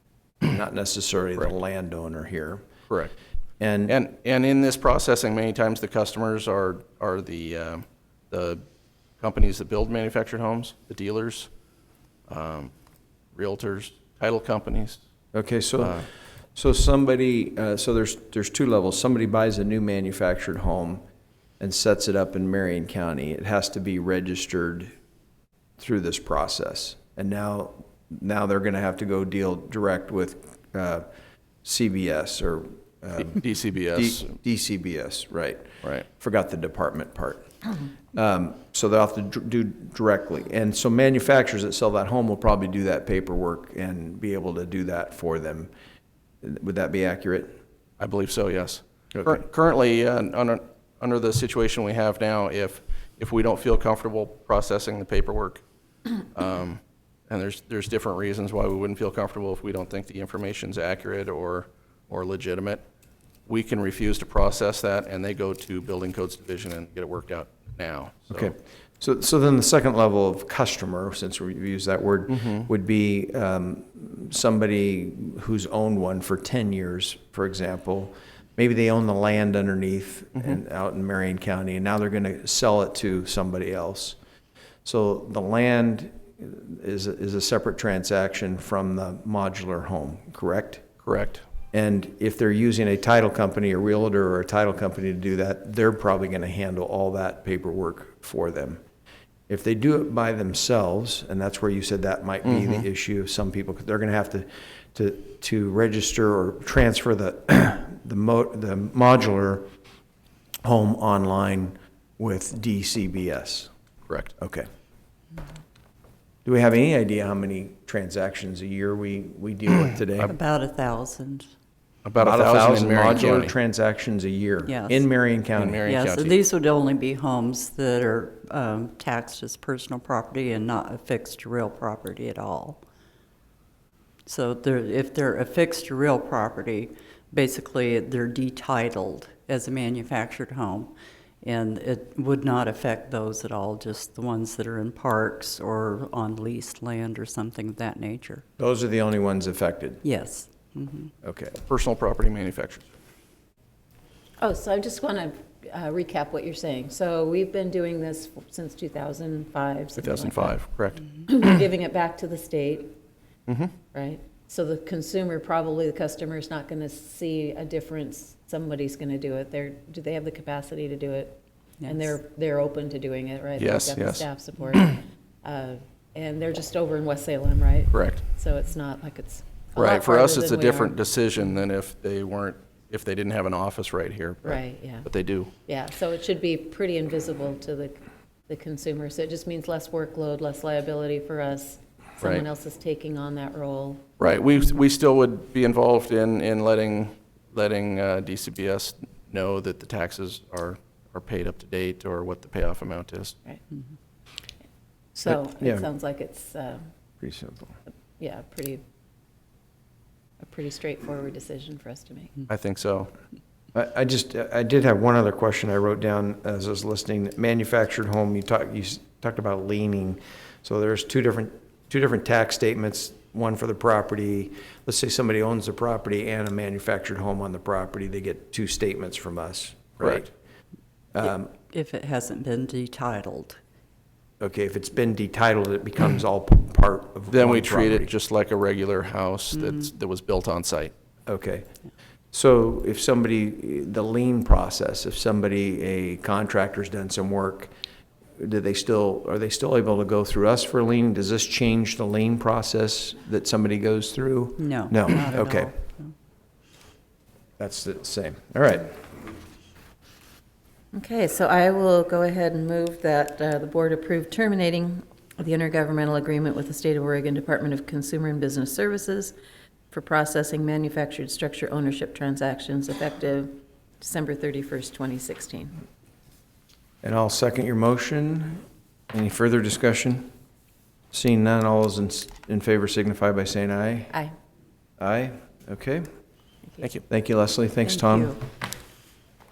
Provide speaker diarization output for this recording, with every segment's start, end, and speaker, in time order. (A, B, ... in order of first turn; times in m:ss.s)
0:00.4-0:02.7 A
0:03.6-0:04.0 A
0:03.9-0:08.6 B
0:09.2-0:11.5 B
0:12.3-0:12.7 B
0:13.3-0:15.0 B
0:15.3-0:21.0 A
0:15.8-0:16.1 B
0:21.6-0:24.9 A
0:25.8-0:31.1 A
0:31.6-0:33.4 A
0:33.3-0:34.4 B
0:33.9-0:37.5 A
0:38.1-0:45.7 A
0:46.4-0:47.5 A
0:48.0-0:55.6 B
0:49.1-0:49.4 A
0:56.3-1:02.8 B
1:03.5-1:08.5 B
1:08.3-1:24.2 A
1:12.3-1:12.7 B
1:24.8-1:30.9 A
1:31.0-1:31.4 B
1:31.7-1:38.8 A
1:39.5-1:49.7 A
1:42.4-1:42.8 B
1:50.6-1:53.7 A
1:54.4-1:54.7 A
1:56.4-2:00.3 A
2:00.2-2:01.5 C
2:02.0-2:03.5 B
2:02.2-2:05.9 A
2:04.7-2:05.1 C
2:05.6-2:06.4 B
2:05.8-2:12.8 C
2:14.3-2:28.4 C
2:28.6-2:30.0 A
2:30.0-2:31.1 C
2:31.2-2:31.6 A
2:31.7-2:32.9 B
2:34.4-2:40.6 D
2:40.0-2:41.1 B
2:41.2-2:42.9 D
2:43.5-2:43.8 B
2:43.9-3:01.0 D
2:51.8-2:52.1 C
2:53.6-2:54.3 B
2:57.9-2:58.2 B
2:59.8-3:05.5 B
3:04.4-3:05.1 D
3:05.7-3:14.1 D
3:14.2-3:23.4 B
3:25.2-3:26.8 D
3:25.3-3:25.9 A
3:27.2-3:27.8 A
3:28.2-3:28.8 D
3:30.4-3:32.4 D
3:32.5-3:33.1 B
3:33.7-3:50.3 A
3:50.0-3:50.2 B
3:51.2-3:51.5 A
3:51.5-3:53.6 C
3:54.4-3:58.1 A
3:57.3-4:00.9 B
4:01.3-4:01.7 A
4:02.3-4:07.7 A
4:08.4-4:15.7 A
4:14.6-4:16.1 C
4:17.6-4:19.0 A
4:20.9-4:29.3 D
4:29.9-4:35.7 D
4:37.0-4:40.3 A
4:41.1-4:44.2 A
4:45.0-4:46.1 A
4:47.1-4:48.4 A
4:48.0-4:48.3 D